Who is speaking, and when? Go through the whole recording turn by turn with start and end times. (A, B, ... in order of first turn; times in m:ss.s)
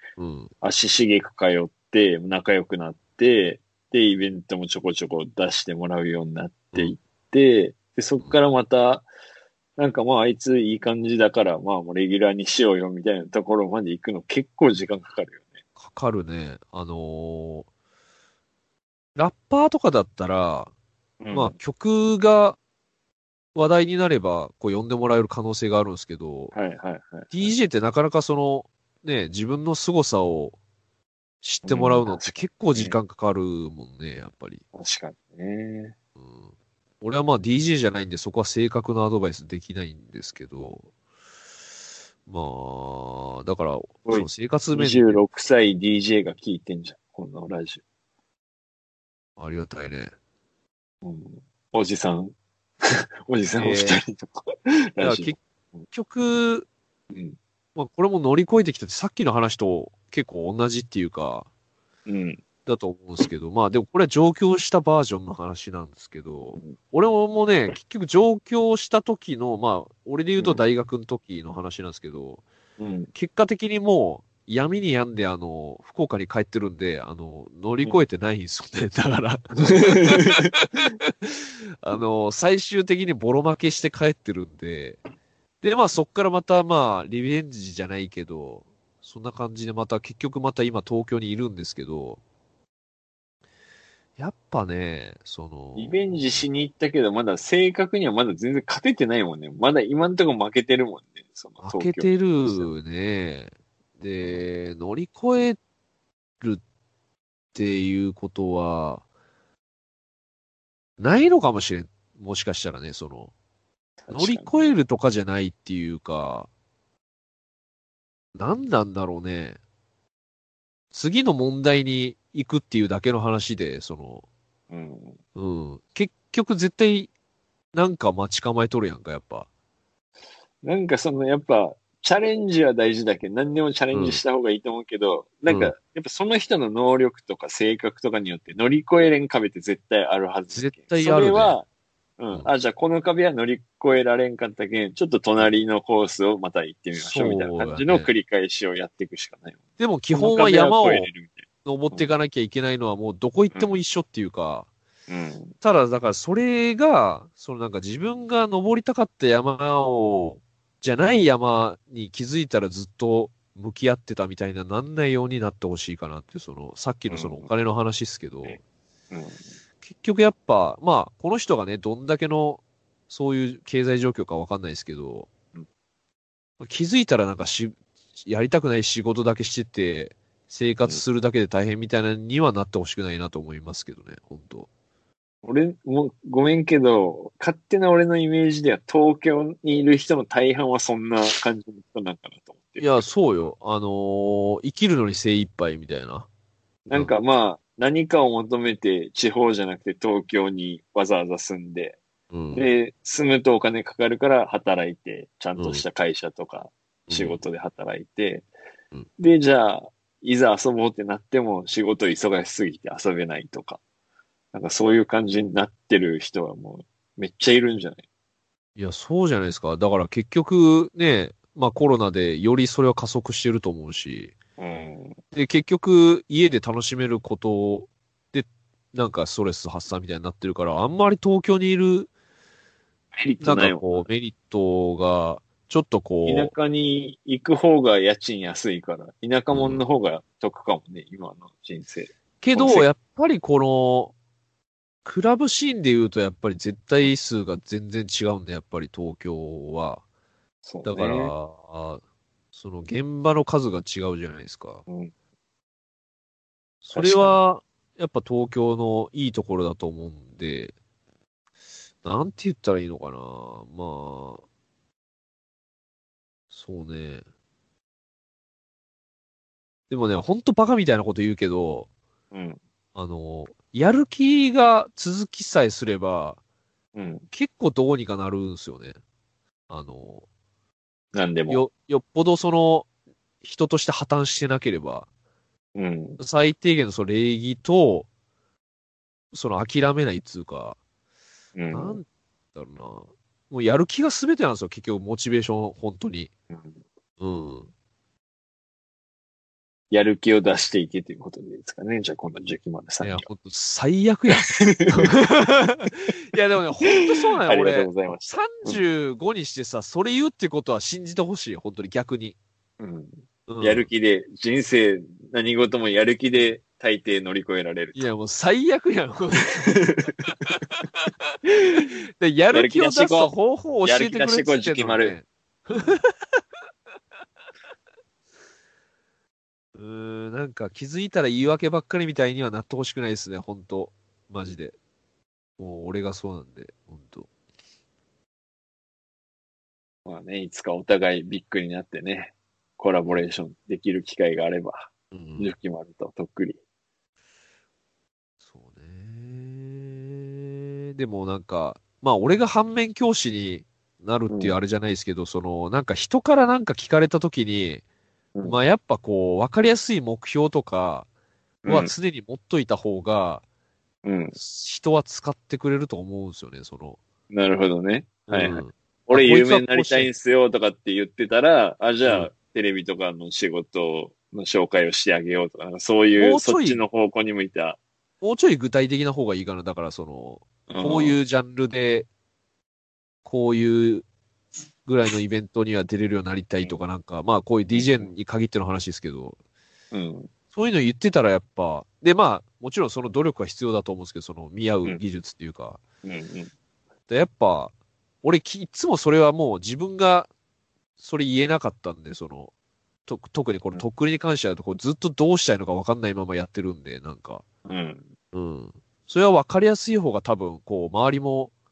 0:00.2-0:00.5 A
0:00.6-0:09.1 B
0:09.8-0:15.4 B
0:15.8-0:17.7 A
0:19.2-0:20.7 A
0:21.2-0:21.6 B
0:21.3-0:22.6 A
0:23.6-0:26.5 A
0:26.5-0:27.5 B
0:27.3-0:30.6 A
0:31.4-0:34.6 A
0:31.6-0:33.0 B
0:34.8-0:36.0 B
0:36.2-0:40.9 A
0:42.3-0:45.2 A
0:44.1-0:47.8 B
0:49.4-0:50.1 A
0:51.0-0:55.8 B
0:53.6-0:54.0 A
0:55.0-0:56.7 A
0:57.1-0:57.4 B
0:57.8-1:01.5 A
1:02.1-1:02.4 B
1:02.7-1:12.4 A
1:12.8-1:13.1 B
1:13.1-1:25.0 A
1:19.6-1:20.5 B
1:25.6-1:32.2 A
1:34.2-1:36.5 A
1:35.8-1:42.7 B
1:41.6-1:45.6 A
1:47.5-1:49.0 A
1:51.0-1:53.3 A
1:54.0-1:54.8 B
1:54.1-1:56.5 A
1:58.4-1:59.6 A
2:00.9-2:04.2 A
2:04.7-2:05.2 B
2:05.4-2:07.1 A
2:07.7-2:09.5 A
2:10.6-2:21.7 B
2:13.9-2:14.2 A
2:15.5-2:15.8 A
2:20.5-2:21.6 A
2:22.2-2:29.6 B
2:27.0-2:28.1 A
2:29.8-2:31.1 A
2:30.1-2:32.1 B
2:31.6-2:34.7 A
2:35.1-2:35.6 B
2:35.6-2:48.6 A
2:47.1-2:47.5 B
2:49.1-2:49.4 B
2:49.8-2:55.3 A
2:56.6-3:04.7 A
3:05.4-3:13.0 B
3:12.8-3:16.3 A
3:16.9-3:22.0 B
3:22.3-3:22.7 A
3:22.5-3:28.5 B
3:25.6-3:25.8 A
3:27.1-3:27.4 A
3:29.2-3:33.8 B
3:34.5-3:38.0 B
3:38.8-3:44.4 A
3:44.6-3:45.2 B
3:45.3-3:52.1 A
3:53.2-3:54.1 B
3:53.4-3:56.5 A
3:56.3-4:02.9 B
3:59.5-3:59.8 A
4:02.4-4:04.1 A
4:05.0-4:10.0 A
4:10.6-4:11.3 B
4:10.8-4:12.0 A
4:12.5-4:14.8 A
4:14.9-4:15.1 B
4:16.8-4:20.7 A
4:16.9-4:17.4 B
4:22.0-4:24.4 A
4:26.5-4:27.2 A
4:29.9-4:31.9 A
4:32.3-4:32.6 B
4:33.0-4:36.4 A
4:37.0-4:37.3 B
4:37.3-4:39.0 A
4:39.7-4:40.3 A
4:41.1-4:41.6 B
4:41.5-4:42.9 A
4:43.4-4:45.1 A
4:45.8-4:46.2 B
4:46.2-4:48.1 A
4:49.3-4:50.8 A
4:51.6-4:52.0 B
4:51.7-4:56.3 A
4:56.5-4:56.8 B
4:57.2-4:57.7 A
4:59.9-5:03.3 B
5:03.0-5:12.4 A
5:04.5-5:05.1 B
5:07.0-5:08.8 B
5:12.8-5:18.1 B
5:13.5-5:13.9 A
5:18.0-5:19.8 A
5:19.6-5:20.2 B
5:21.5-5:26.4 A
5:22.5-5:23.3 B
5:23.8-5:25.2 B
5:29.8-5:34.8 A
5:35.6-5:37.3 A
5:40.0-5:46.6 B
5:45.1-5:45.5 A
5:48.5-5:57.8 A
5:54.3-5:54.6 B
5:58.4-6:01.1 A
6:01.6-6:01.9 B
6:01.7-6:03.4 A
6:04.0-6:04.4 B
6:04.4-6:07.0 A
6:07.3-6:17.8 B
6:08.3-6:10.1 A
6:12.0-6:12.3 A
6:16.2-6:16.8 A
6:18.2-6:22.1 A
6:20.7-6:21.2 B
6:23.2-6:24.1 A
6:24.9-6:29.4 A
6:27.7-6:28.1 B
6:29.9-6:30.3 B
6:30.5-6:35.8 A
6:36.0-6:36.5 B
6:37.1-6:40.3 A
6:41.0-6:42.5 A
6:43.1-6:47.4 A
6:47.7-6:48.1 B
6:48.3-6:51.5 A